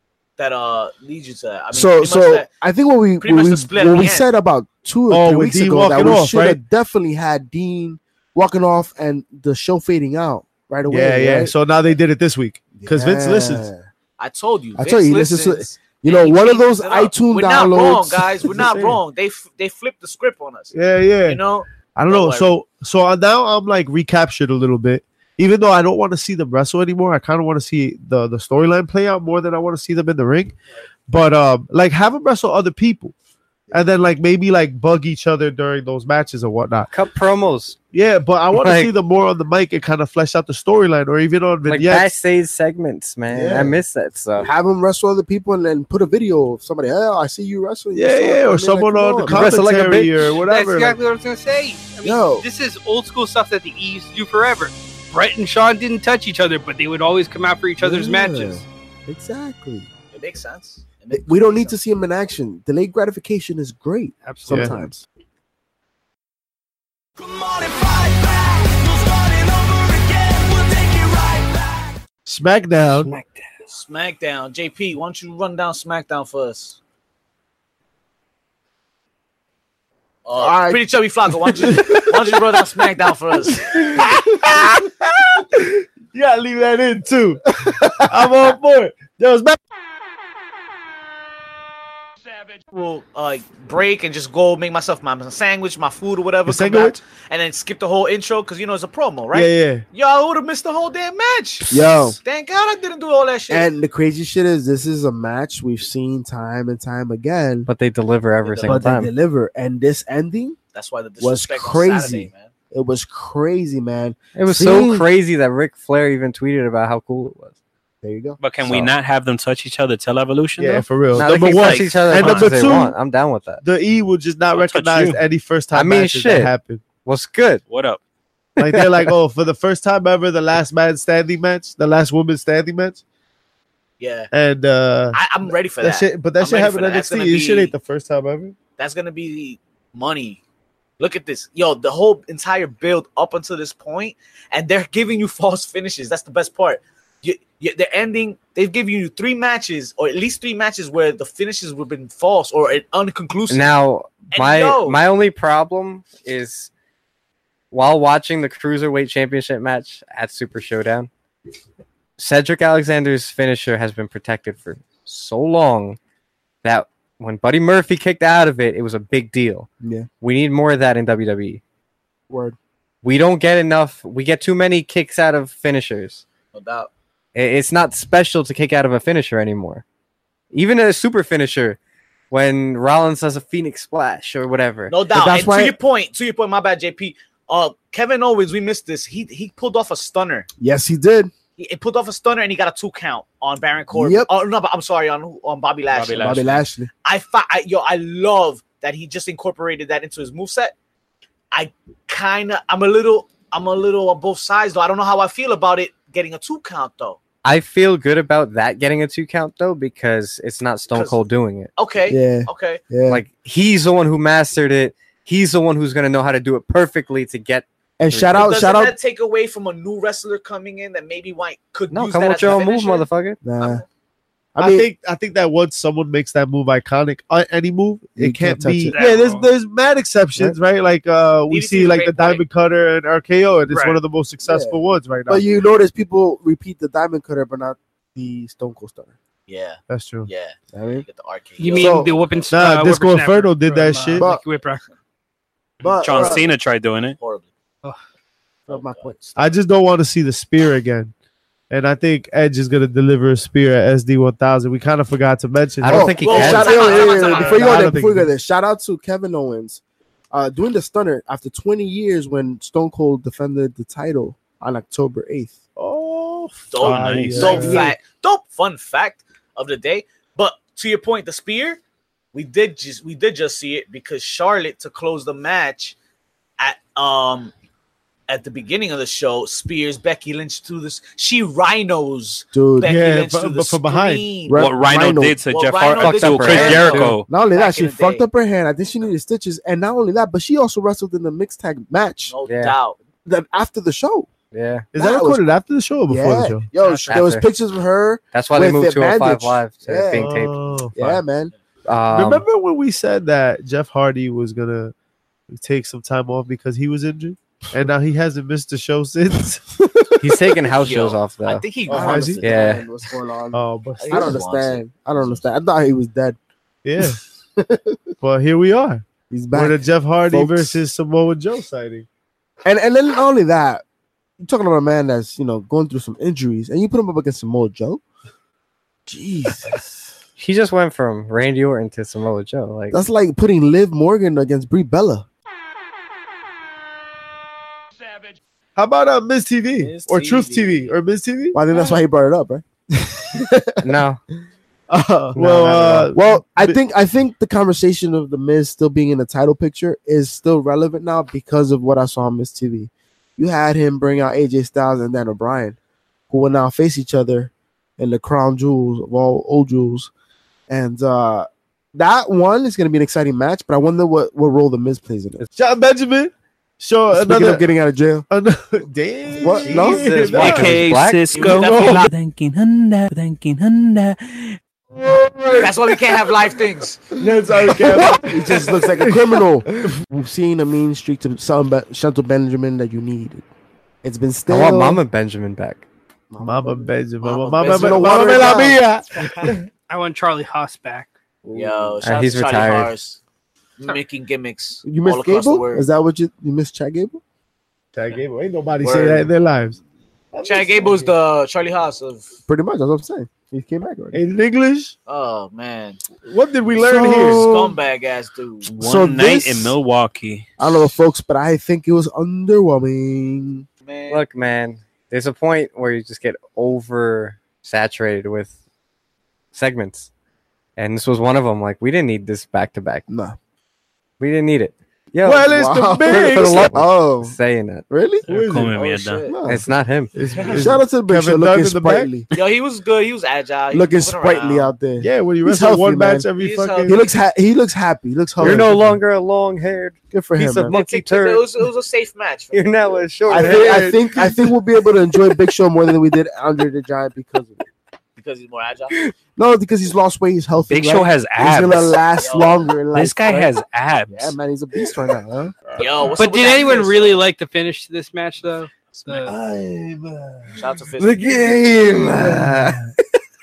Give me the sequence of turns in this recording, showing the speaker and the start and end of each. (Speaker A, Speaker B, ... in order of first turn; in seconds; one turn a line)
Speaker A: 0.4-2.5
Speaker B: 1.7-11.5
Speaker A: 3.2-4.3
Speaker C: 5.1-6.6
Speaker C: 10.9-13.7
Speaker B: 12.8-13.8
Speaker A: 14.2-22.5
Speaker B: 14.8-18.2
Speaker C: 18.5-19.0
Speaker C: 20.7-21.4
Speaker C: 21.9-30.6
Speaker C: 31.1-33.1
Speaker C: 33.7-36.9
Speaker D: 36.9-37.8
Speaker C: 37.9-42.1
Speaker D: 38.5-38.9
Speaker D: 41.7-44.5
Speaker B: 43.3-43.8
Speaker B: 44.4-49.6
Speaker C: 47.9-51.0
Speaker D: 49.3-50.4
Speaker E: 50.3-58.6
Speaker B: 52.0-52.5
Speaker B: 57.8-59.9
Speaker A: 60.1-61.8
Speaker B: 61.1-65.0
Speaker E: 64.2-64.8
Speaker C: 64.5-64.8
Speaker C: 72.2-73.1
Speaker A: 73.7-76.8
Speaker A: 80.2-83.7
Speaker B: 80.4-80.8
Speaker C: 81.8-82.0
Speaker C: 83.7-89.6
Speaker A: 92.6-103.7
Speaker C: 96.5-97.0
Speaker C: 99.3-99.8
Speaker B: 101.7-102.2
Speaker B: 103.5-107.7
Speaker D: 107.7-109.1
Speaker A: 108.4-108.9
Speaker B: 108.6-110.6
Speaker A: 110.7-112.5
Speaker B: 111.2-115.1
Speaker D: 114.3-117.5
Speaker B: 118.0-118.4
Speaker F: 118.4-122.7
Speaker D: 118.6-118.9
Speaker C: 120.6-123.0
Speaker D: 121.1-123.6
Speaker C: 123.6-126.8
Speaker F: 124.5-125.2
Speaker D: 125.7-126.5
Speaker D: 127.0-127.6
Speaker F: 127.7-128.0
Speaker C: 128.6-133.0
Speaker D: 128.6-129.0
Speaker A: 134.0-134.3
Speaker C: 134.3-135.2
Speaker A: 135.1-137.7
Speaker C: 135.8-138.6
Speaker A: 138.8-140.4
Speaker A: 141.0-153.7
Speaker D: 153.5-156.7
Speaker A: 154.3-155.0
Speaker D: 157.7-161.1
Speaker D: 162.2-166.0
Speaker D: 166.6-169.7
Speaker B: 169.8-170.1
Speaker D: 170.2-171.6
Speaker B: 172.3-172.6
Speaker D: 173.0-176.2
Speaker A: 176.5-176.9
Speaker D: 177.3-179.8
Speaker D: 180.5-181.8
Speaker D: 182.3-184.9
Speaker A: 184.9-190.5
Speaker B: 185.1-185.8
Speaker B: 190.6-191.3
Speaker A: 191.6-196.4
Speaker B: 193.9-194.3
Speaker F: 195.9-196.6
Speaker B: 196.2-196.9
Speaker A: 197.0-200.7
Speaker A: 201.5-207.2
Speaker D: 207.4-211.7
Speaker A: 210.9-211.2
Speaker A: 211.8-212.8
Speaker B: 212.1-213.2
Speaker D: 213.1-218.5
Speaker B: 218.0-218.9
Speaker A: 218.3-223.1
Speaker D: 221.9-223.4
Speaker B: 223.4-223.8
Speaker A: 223.6-223.8
Speaker B: 224.5-224.9
Speaker C: 224.6-235.4
Speaker B: 228.2-229.0
Speaker E: 228.9-229.5
Speaker A: 231.5-232.4
Speaker E: 233.7-234.0
Speaker B: 234.4-239.1
Speaker A: 239.5-242.5
Speaker C: 239.9-240.3
Speaker B: 240.7-241.0
Speaker E: 241.6-244.8
Speaker B: 241.7-242.1
Speaker C: 242.5-244.3
Speaker B: 244.2-244.4
Speaker B: 245.8-246.4
Speaker F: 246.0-247.2
Speaker A: 246.1-246.5
Speaker A: 247.2-247.5
Speaker B: 248.7-249.4
Speaker A: 248.7-249.3
Speaker C: 249.4-251.1
Speaker C: 251.7-258.3
Speaker D: 255.8-256.9
Speaker B: 255.8-265.6
Speaker A: 256.2-257.8
Speaker C: 265.8-267.9
Speaker A: 266.7-271.8
Speaker F: 266.8-267.6
Speaker B: 267.3-267.9
Speaker A: 272.3-275.9
Speaker A: 276.6-277.5
Speaker A: 278.3-284.8
Speaker B: 282.5-282.9
Speaker C: 282.8-284.3
Speaker B: 284.5-285.4
Speaker F: 284.5-287.3
Speaker A: 285.5-288.2
Speaker D: 286.0-287.1
Speaker B: 287.2-292.3
Speaker A: 292.3-293.0
Speaker D: 292.5-292.8
Speaker B: 293.2-294.3
Speaker D: 294.5-294.9
Speaker C: 294.9-296.7
Speaker B: 294.9-295.4
Speaker B: 296.1-300.3
Speaker E: 296.8-297.1
Speaker D: 297.1-297.5
Speaker D: 298.3-300.5
Speaker C: 300.1-301.2
Speaker B: 300.9-301.5
Speaker D: 301.9-302.4
Speaker C: 302.1-304.9
Speaker C: 305.5-309.7
Speaker B: 309.8-310.6
Speaker D: 310.2-311.6
Speaker A: 310.8-312.8
Speaker C: 311.9-312.4
Speaker B: 311.9-316.4
Speaker D: 312.4-312.8
Speaker C: 313.5-314.4
Speaker A: 314.0-315.4
Speaker C: 316.8-317.2
Speaker B: 317.0-318.0
Speaker C: 318.2-322.1
Speaker B: 319.3-320.8
Speaker B: 322.6-323.8
Speaker B: 324.4-328.0
Speaker B: 329.1-330.0
Speaker D: 330.4-333.0
Speaker B: 332.9-335.2
Speaker C: 338.8-341.6
Speaker A: 339.8-340.9
Speaker B: 341.5-343.8
Speaker D: 343.8-344.2
Speaker C: 344.9-346.8
Speaker B: 345.3-355.8
Speaker B: 356.3-360.1
Speaker B: 360.7-365.4
Speaker C: 365.5-367.6
Speaker B: 367.1-368.2
Speaker C: 368.3-370.9
Speaker B: 369.3-370.3
Speaker D: 369.6-371.4
Speaker F: 370.3-374.6
Speaker A: 371.3-372.1
Speaker C: 374.9-376.6
Speaker A: 375.6-377.0
Speaker C: 377.2-380.0
Speaker B: 377.6-383.4
Speaker B: 384.0-385.0
Speaker D: 384.5-385.8
Speaker B: 386.3-386.9
Speaker C: 386.4-389.7
Speaker A: 387.2-389.6
Speaker B: 387.6-388.8
Speaker E: 389.9-391.1
Speaker B: 391.4-392.0
Speaker A: 391.5-393.2
Speaker D: 392.0-392.9
Speaker A: 393.8-395.9
Speaker B: 394.8-397.2
Speaker C: 397.9-399.8
Speaker A: 398.8-399.3
Speaker C: 400.3-401.1
Speaker A: 400.4-402.3
Speaker B: 402.5-404.2
Speaker C: 404.1-404.9
Speaker A: 405.1-406.0
Speaker C: 406.2-407.5
Speaker A: 406.7-408.7
Speaker B: 406.7-407.8
Speaker F: 408.6-410.8
Speaker B: 408.8-409.8
Speaker B: 410.6-413.6
Speaker A: 413.8-414.2
Speaker D: 414.1-418.5
Speaker D: 419.5-420.1
Speaker D: 420.8-423.0
Speaker B: 423.1-423.4
Speaker D: 424.2-427.9
Speaker C: 425.2-426.7
Speaker B: 425.4-427.4
Speaker B: 427.9-428.2
Speaker F: 428.2-429.3
Speaker C: 428.3-428.8
Speaker A: 428.7-429.4
Speaker B: 429.2-429.6
Speaker D: 429.4-430.1
Speaker C: 430.1-432.1
Speaker A: 430.3-430.7
Speaker B: 430.4-432.3
Speaker A: 432.3-434.7
Speaker B: 433.7-436.3
Speaker C: 435.0-437.0
Speaker A: 436.4-437.0
Speaker B: 436.8-438.7
Speaker C: 438.4-439.0
Speaker D: 438.4-441.4
Speaker B: 440.1-440.7
Speaker A: 440.7-443.3
Speaker D: 442.5-444.2
Speaker B: 443.3-447.6
Speaker C: 443.3-444.6
Speaker A: 448.1-448.9
Speaker B: 448.9-453.5
Speaker F: 450.7-452.0
Speaker A: 452.2-452.7
Speaker F: 452.9-454.4
Speaker B: 454.1-455.6
Speaker C: 455.7-456.1
Speaker A: 455.8-457.2
Speaker E: 456.1-459.3
Speaker C: 459.2-460.6
Speaker A: 460.5-461.3
Speaker D: 461.0-462.9
Speaker C: 461.2-462.8